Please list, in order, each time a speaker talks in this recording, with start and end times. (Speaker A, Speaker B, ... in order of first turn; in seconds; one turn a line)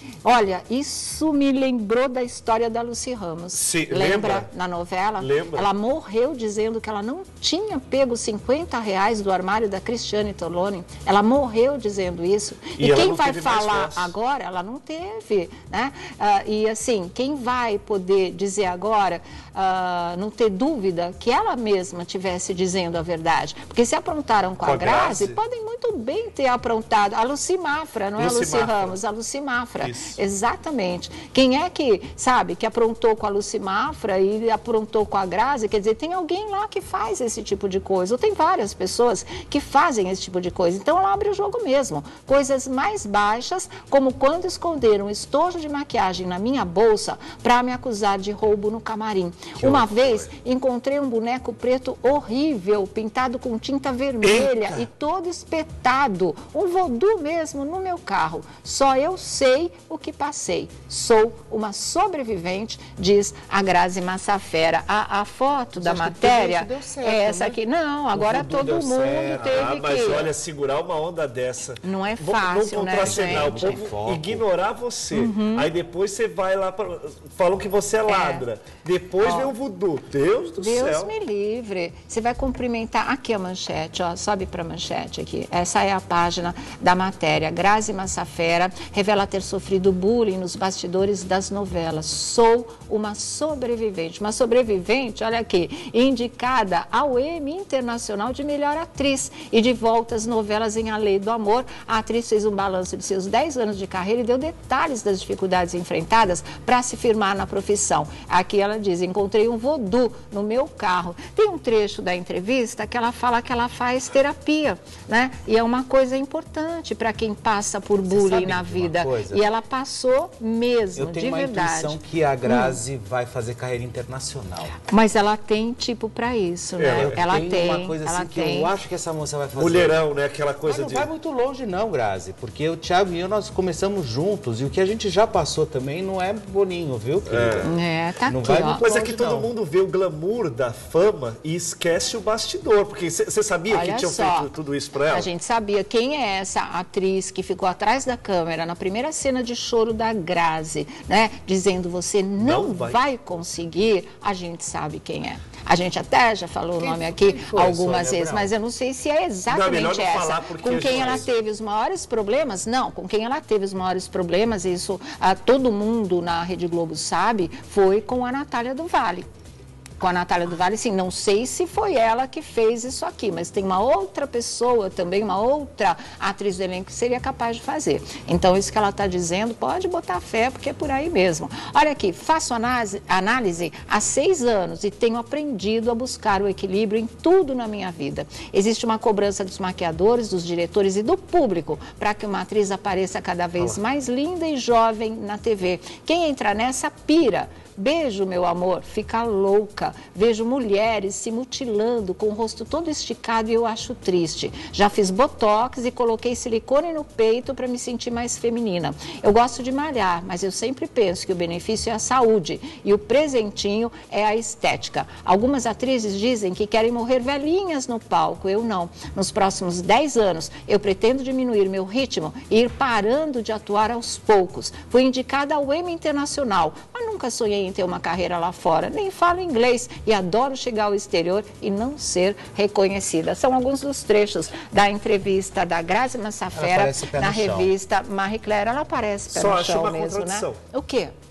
Speaker A: 0.2-70.3
Speaker B: 3.5-4.5
Speaker B: 5.2-5.7
Speaker B: 12.8-14.1
Speaker B: 24.6-25.4
Speaker B: 28.2-29.0
Speaker B: 29.8-30.2
Speaker B: 49.6-50.3
Speaker B: 54.2-54.8
Speaker C: 65.8-67.6
Speaker C: 68.1-69.8
Speaker B: 69.3-81.1
Speaker A: 71.8-73.8
Speaker C: 73.0-74.4
Speaker A: 75.1-75.7
Speaker A: 78.1-78.5
Speaker A: 79.2-79.5
Speaker A: 80.6-122.8
Speaker C: 118.1-119.4
Speaker C: 121.0-124.8
Speaker A: 124.9-128.7
Speaker B: 126.8-127.2
Speaker C: 127.0-130.0
Speaker B: 129.6-131.1
Speaker C: 130.7-137.7
Speaker B: 137.3-137.7
Speaker A: 137.6-138.8
Speaker C: 138.3-139.5
Speaker B: 138.8-145.3
Speaker A: 143.7-144.5
Speaker A: 145.1-169.3
Speaker B: 152.4-153.0
Speaker C: 156.8-158.5
Speaker B: 159.5-161.3
Speaker A: 170.0-241.1
Speaker C: 236.6-237.7
Speaker B: 239.3-240.6